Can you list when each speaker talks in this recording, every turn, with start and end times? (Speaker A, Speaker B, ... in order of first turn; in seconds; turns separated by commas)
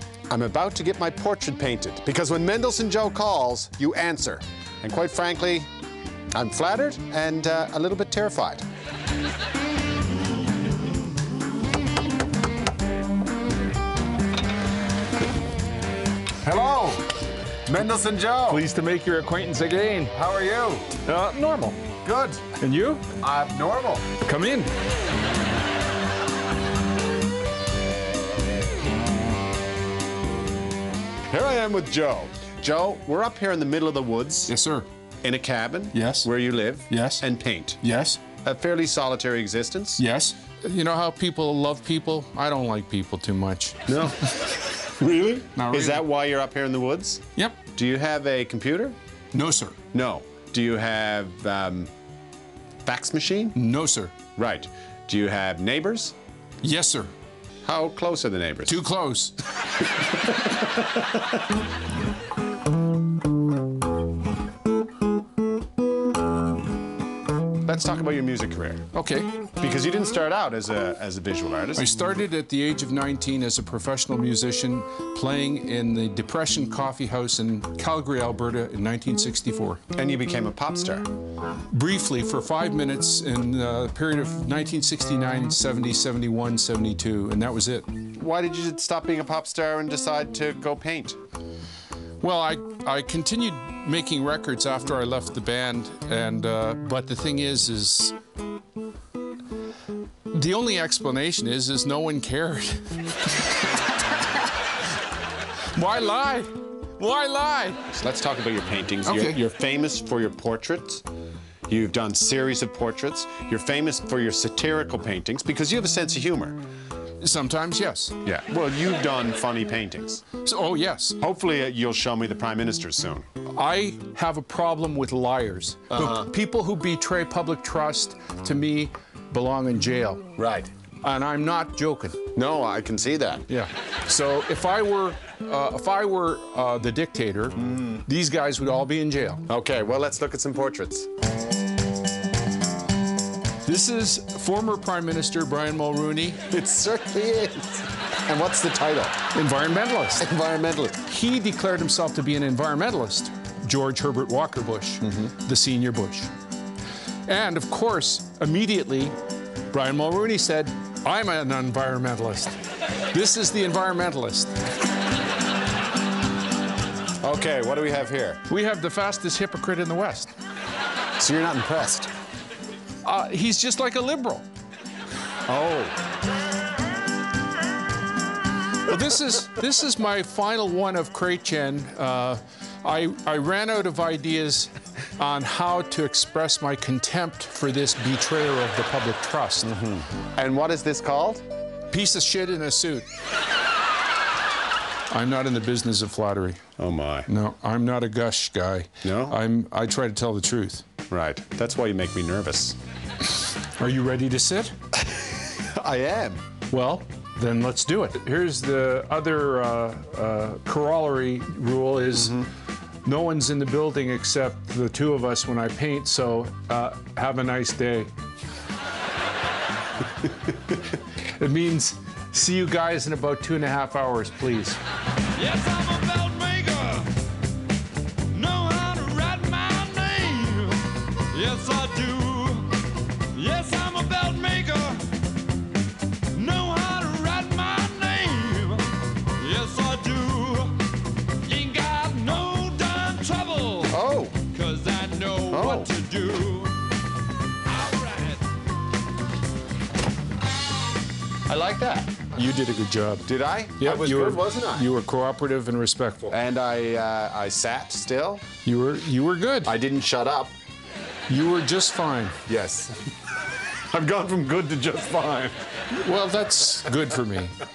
Speaker A: 0.3-5.7, Speaker A: 6.3-8.6, Speaker A: 16.4-17.1, Speaker A: 17.7-18.6, Speaker B: 18.5-20.1, Speaker A: 20.1-20.9, Speaker B: 21.0-21.8, Speaker A: 22.0-22.4, Speaker B: 22.6-23.1, Speaker A: 23.2-24.1, Speaker B: 24.2-24.7, Speaker A: 31.3-34.5, Speaker B: 34.5-34.9, Speaker A: 35.2-37.8, Speaker B: 35.9-36.3, Speaker B: 36.9-37.2, Speaker B: 37.8-38.2, Speaker A: 38.4-40.0, Speaker B: 40.0-43.9, Speaker A: 43.9-47.2, Speaker B: 45.5-46.0, Speaker A: 47.7-48.9, Speaker B: 49.3-49.8, Speaker A: 49.9-51.9, Speaker A: 52.8-53.5, Speaker B: 53.5-54.1, Speaker A: 54.4-56.1, Speaker B: 56.6-57.1, Speaker A: 57.6-58.8, Speaker B: 58.6-59.3, Speaker A: 60.1-61.0, Speaker A: 67.6-68.8, Speaker B: 68.9-69.3, Speaker A: 69.6-71.9, Speaker B: 71.8-79.8, Speaker A: 79.9-81.1, Speaker B: 81.7-87.9, Speaker A: 88.1-91.2, Speaker B: 92.2-98.1, Speaker B: 100.3-104.4, Speaker B: 105.7-107.8, Speaker A: 107.9-111.0, Speaker B: 109.0-109.4, Speaker A: 111.7-116.6, Speaker B: 117.2-118.1, Speaker A: 118.2-120.2, Speaker B: 120.4-121.2, Speaker A: 121.2-123.2, Speaker B: 123.5-130.3, Speaker A: 125.9-126.3, Speaker A: 130.4-130.7, Speaker B: 131.0-132.2, Speaker A: 132.3-133.4, Speaker B: 133.5-139.4, Speaker A: 139.5-141.1, Speaker B: 143.7-146.4, Speaker A: 146.5-149.2, Speaker B: 149.3-150.3, Speaker A: 150.2-151.0, Speaker B: 151.0-156.3, Speaker A: 155.0-155.3, Speaker B: 157.3-159.1, Speaker B: 159.7-162.6, Speaker B: 163.1-164.5, Speaker A: 167.2-168.4, Speaker B: 168.5-170.3, Speaker A: 171.2-172.1, Speaker B: 173.0-174.4, Speaker A: 175.5-175.9, Speaker B: 178.8-189.7, Speaker A: 189.6-191.4, Speaker B: 191.9-193.1, Speaker B: 195.1-196.6, Speaker A: 196.8-197.3, Speaker B: 197.3-200.8, Speaker A: 199.0-199.4, Speaker A: 201.1-202.8, Speaker B: 203.8-204.7, Speaker A: 205.4-206.4, Speaker B: 206.7-212.4, Speaker A: 212.2-212.4, Speaker B: 213.0-218.1, Speaker B: 221.4-224.8, Speaker C: 225.4-227.1, Speaker C: 228.3-230.3, Speaker B: 228.6-230.7, Speaker C: 231.3-232.4, Speaker B: 231.5-232.6, Speaker C: 233.4-235.0, Speaker B: 233.6-235.0, Speaker C: 236.4-236.8, Speaker B: 236.5-238.8, Speaker C: 239.4-240.2, Speaker B: 239.6-240.7, Speaker B: 241.5-243.9, Speaker A: 243.9-244.4, Speaker B: 244.5-246.7, Speaker A: 245.5-245.9, Speaker A: 251.5-252.2, Speaker B: 252.3-256.3, Speaker A: 253.3-254.9, Speaker A: 256.3-258.4, Speaker B: 258.6-259.7, Speaker A: 259.6-260.5, Speaker B: 261.3-262.4, Speaker A: 262.5-263.0, Speaker A: 263.9-265.6, Speaker B: 265.9-267.6